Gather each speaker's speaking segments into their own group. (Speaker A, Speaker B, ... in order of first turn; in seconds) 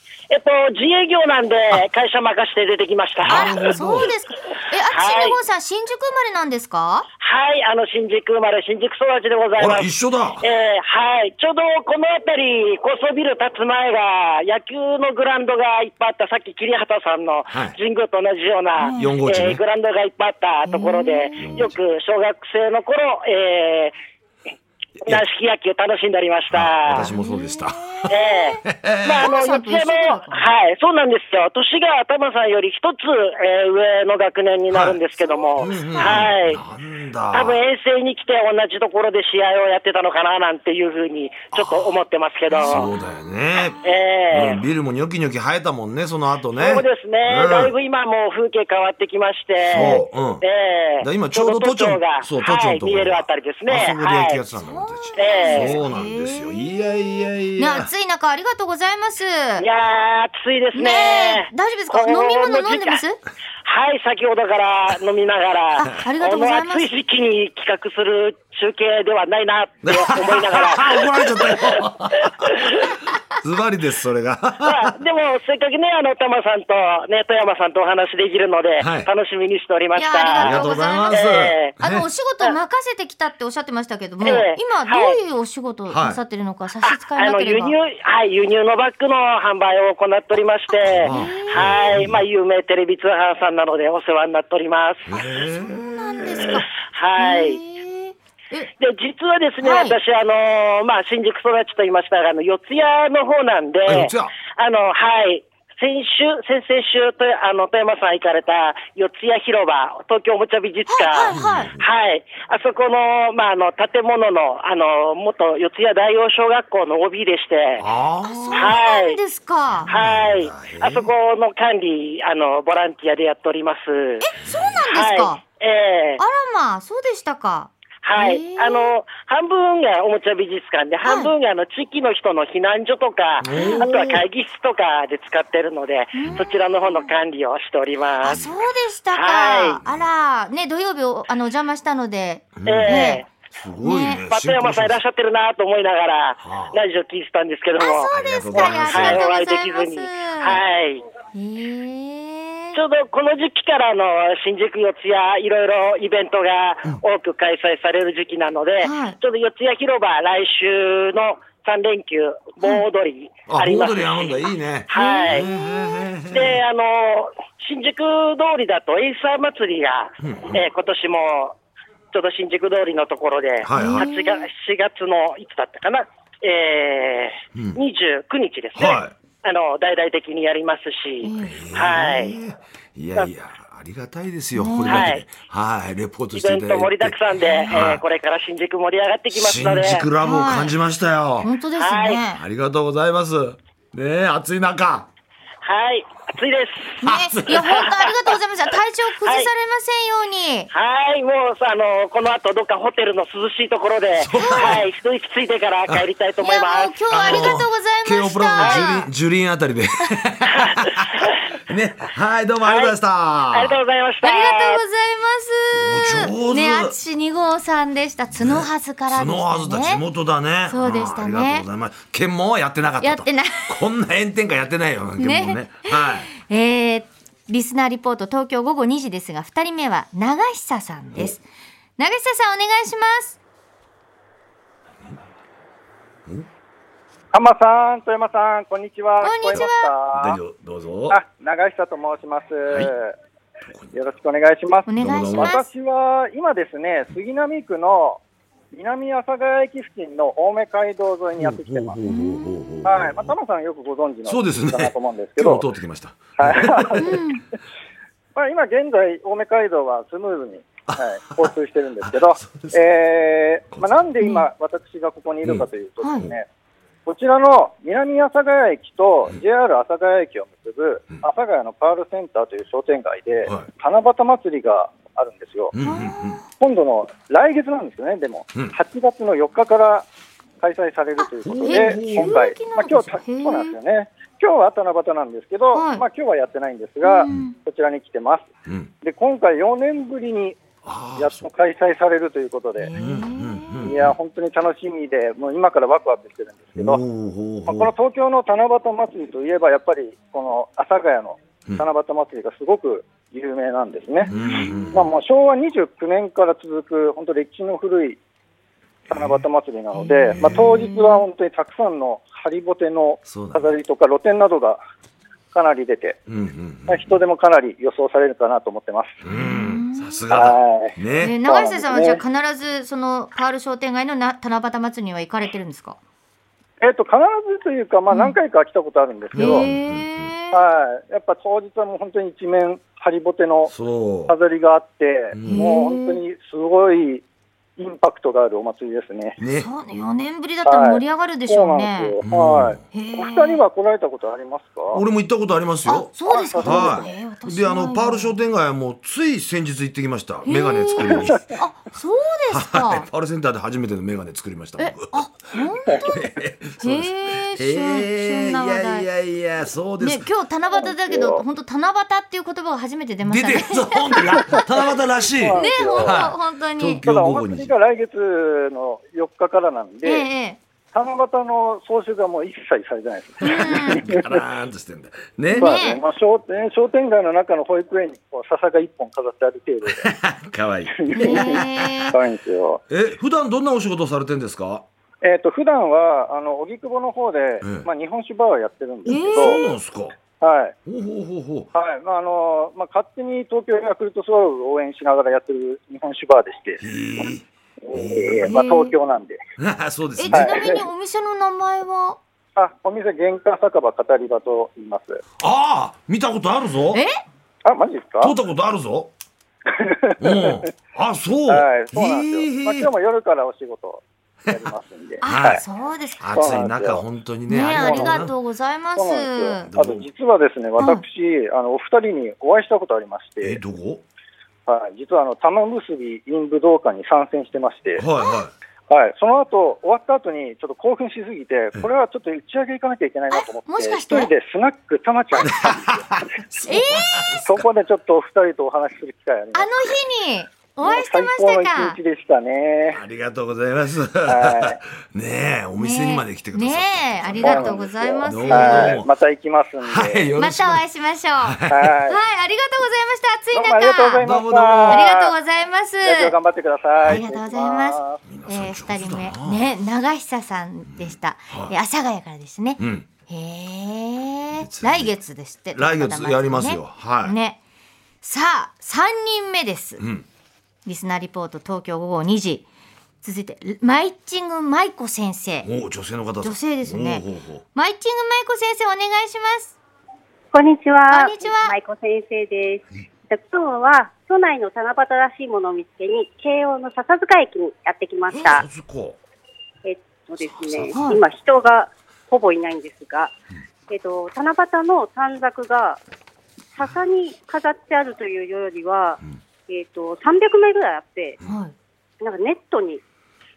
Speaker A: 0.3-3.6, 4.9-5.4, 7.2-23.9, 25.0-27.1, 28.1-36.6, 37.3-42.9, 43.8-44.6, 46.5-54.4, 55.1-55.8, 59.6-63.0, 63.6-71.8, 72.5-72.8, 74.6-81.8, 84.2-85.2, 86.8-95.1, 96.9-97.6, 98.8-117.8, 118.5-119.2, 119.9-124.3, 124.9-126.2, 128.0-138.4, 139.1-139.8, 142.7-143.3, 144.2-151.0, 152.7-165.5, 166.3-171.6, 172.1-182.4, 184.8-185.3, 186.3-190.1, 191.7-192.2, 195.6-197.0, 197.6-198.4, 199.2-199.5, 200.7-207.6, 208.6-208.9, 212.6-213.0, 213.5-214.8
Speaker B: 3.2-4.1, 9.6-10.4, 17.5-17.8, 19.0-19.6, 21.4-21.7, 26.5-28.1, 28.6-29.2, 34.7-35.0, 35.6-37.6, 41.5-41.9, 42.7-43.8, 44.3-47.7, 49.7-50.4, 51.0-57.9, 69.8-72.6, 73.4-74.9, 78.8-79.1, 80.4-82.0, 85.9-86.2, 91.0-92.2, 95.1-96.6, 103.9-104.3, 111.3-111.8, 117.8-118.7, 119.9-121.1, 124.4-124.8, 133.4-134.2, 138.2-138.7, 142.6-145.0, 146.4-146.7, 148.1-149.2, 163.5-166.6, 170.2-170.6, 173.6-174.1, 178.8-179.1, 181.4-188.0, 189.3-191.5, 192.3-195.1, 197.0-197.5, 204.2-204.8, 207.1-213.8, 215.7-217.0, 218.3-226.3, 239.5-241.2, 243.7-244.0, 244.9-245.6, 251.4-253.3, 254.2-257.1, 260.9-261.5, 262.1-262.8, 263.7-264.0, 265.4-266.3, 275.7-276.4, 281.4-282.4, 288.6-288.9, 290.8-291.5, 292.9-294.1, 296.8-297.9, 304.3-305.1, 309.1-309.4, 310.4-310.8, 313.2-313.7, 316.3-317.2, 319.2-321.4, 329.3-330.3, 333.7-334.4, 335.3-335.6, 339.4-339.7, 342.2-342.8, 344.9-351.4, 352.5-355.2, 355.9-360.3, 363.2-367.7, 373.6-375.8, 379.9-382.1, 382.9-384.9, 387.6-387.9, 389.1-390.2, 390.8-391.7, 396.8-398.5, 399.6-400.8, 405.4-407.0, 408.2-409.1, 410.2-412.9, 415.2-415.6, 416.2-418.3, 419.7-420.1, 423.4-424.0, 427.9-428.5, 435.4-437.6, 442.9-449.1, 449.8-450.8, 451.4-451.9, 454.2-455.1, 458.2-459.7, 460.9-461.7, 462.8-463.1, 464.6-465.2, 465.7-467.4, 470.0-470.2, 475.6-477.6, 488.3-489.2, 490.4-491.0
Speaker C: 3.3-7.0, 18.8-19.1, 20.6-21.5, 27.0-28.6, 29.2-30.5, 35.2-36.3, 42.5-42.9, 49.8-50.0, 54.5-59.6, 60.7-63.2, 65.8-66.9, 79.9-81.2, 81.8-87.8, 90.7-91.7, 95.3-98.7, 99.6-100.0, 110.9-111.7, 118.2-119.9, 124.2-125.4, 126.2-128.9, 131.0-131.3, 133.5-133.9, 136.1-137.1, 138.2-143.2, 143.8-144.2, 147.8-150.6, 151.3-152.8, 158.8-159.2, 164.9-165.8, 173.7-174.5, 181.2-181.6, 184.5-185.1, 187.4-187.8, 190.2-190.7, 191.4-192.4, 197.0-200.7, 204.4-204.8, 206.4-209.1, 214.2-220.0, 220.7-221.7, 223.0-223.8, 225.2-231.4, 232.0-233.4, 239.2-239.9, 244.8-245.7, 252.1-252.6, 257.0-257.4, 264.2-264.5, 266.0-266.3, 275.8-276.4, 281.2-283.8, 285.7-286.0, 287.0-287.5, 292.8-293.9, 304.2-304.7, 309.9-311.2, 319.3-320.2, 321.2-326.0, 328.1-328.4, 329.3-330.6, 335.5-336.2, 339.5-342.2, 342.9-343.6, 345.9-348.4, 350.4-353.1, 354.8-356.2, 356.8-359.1, 360.0-364.6, 365.5-367.0, 370.0-370.6, 373.4-374.1, 375.5-376.0, 381.1-382.1, 389.0-389.6, 398.4-398.9, 400.2-402.2, 406.9-407.2, 415.2-416.2, 417.5-419.7, 420.8-421.0, 433.3-434.3, 436.6-437.5, 439.5-442.0, 445.8-449.0, 450.4-454.3, 454.9-456.4, 457.0-467.6, 468.2-470.0, 470.9-472.6, 473.2-475.7, 476.4-479.7, 481.1-481.8, 490.9-491.2, 501.4-501.7
Speaker D: 237.3-240.4, 241.1-243.1, 243.9-248.2, 248.7-252.0, 252.8-255.7, 256.4-257.1, 258.3-266.4, 267.1-275.7, 276.6-280.1, 280.6-288.5, 289.0-290.6, 291.2-292.9, 293.8-297.0, 297.6-304.3, 304.9-308.2, 309.1-314.8, 315.5-316.2, 316.9-319.2, 320.3-322.2, 326.8-329.7, 330.5-333.7, 334.3-337.2, 337.8-339.4, 340.6-345.0, 346.2-347.2, 351.0-351.4, 360.7-361.4, 365.3-366.2, 367.0-370.3, 370.9-374.4, 375.5-380.1, 380.9-382.8, 385.2-389.6, 390.4-390.7, 391.7-396.8, 397.8-399.4, 400.3-400.9, 402.6-405.2, 407.6-408.3, 409.7-410.7, 411.5-415.6, 416.3-417.1, 417.6-418.3, 418.9-423.6, 424.7-428.0, 428.9-436.0, 437.4-440.0, 440.8-443.0, 444.3-444.8, 447.4-450.3, 451.7-452.2, 453.5-455.4, 456.0-458.2
Speaker E: 480.5-488.6, 489.8-493.3, 493.9-496.0, 496.7-501.4, 502.2-503.0